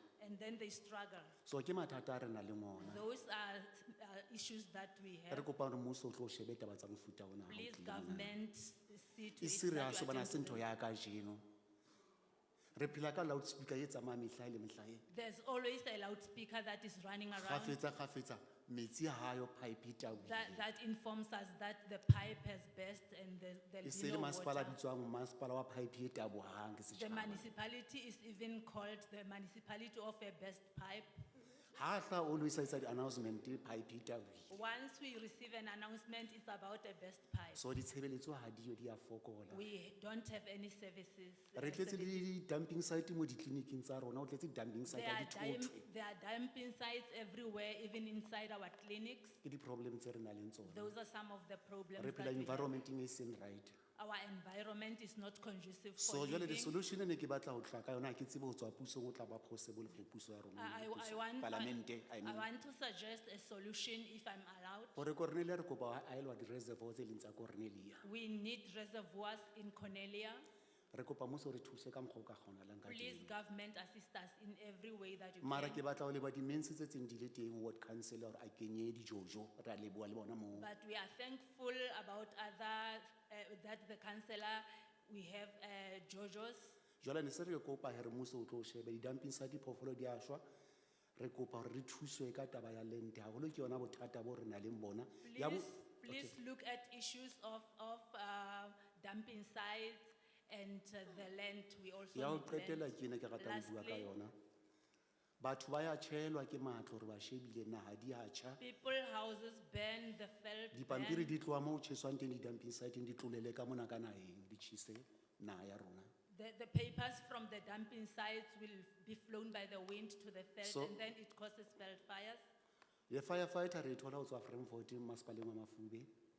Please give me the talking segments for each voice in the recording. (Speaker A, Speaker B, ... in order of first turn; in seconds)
Speaker A: 0.2-1.4, 2.8-5.5, 7.5-10.7, 15.1-17.8, 20.2-24.8, 26.9-31.1, 34.5-37.6, 39.5-42.3, 44.9-49.4, 50.6-52.8, 54.0-56.8, 60.5-65.0, 68.0-70.5, 72.8-75.8, 80.5-86.8, 95.2-104.1, 108.6-111.3, 116.3-122.4
Speaker B: 1.4-3.0, 5.3-8.4, 9.4-11.4, 12.8-15.1, 17.3-20.6, 23.8-27.5, 31.7-34.6, 37.5-39.6, 41.5-45.8, 49.4-50.9, 52.0-53.7, 56.0-62.5, 65.0-68.0, 70.9-73.3, 75.4-80.7, 87.0-90.4, 91.2-96.4, 102.1-104.3, 105.4-108.6, 110.7-116.1, 120.6-121.0, 123.1-126.1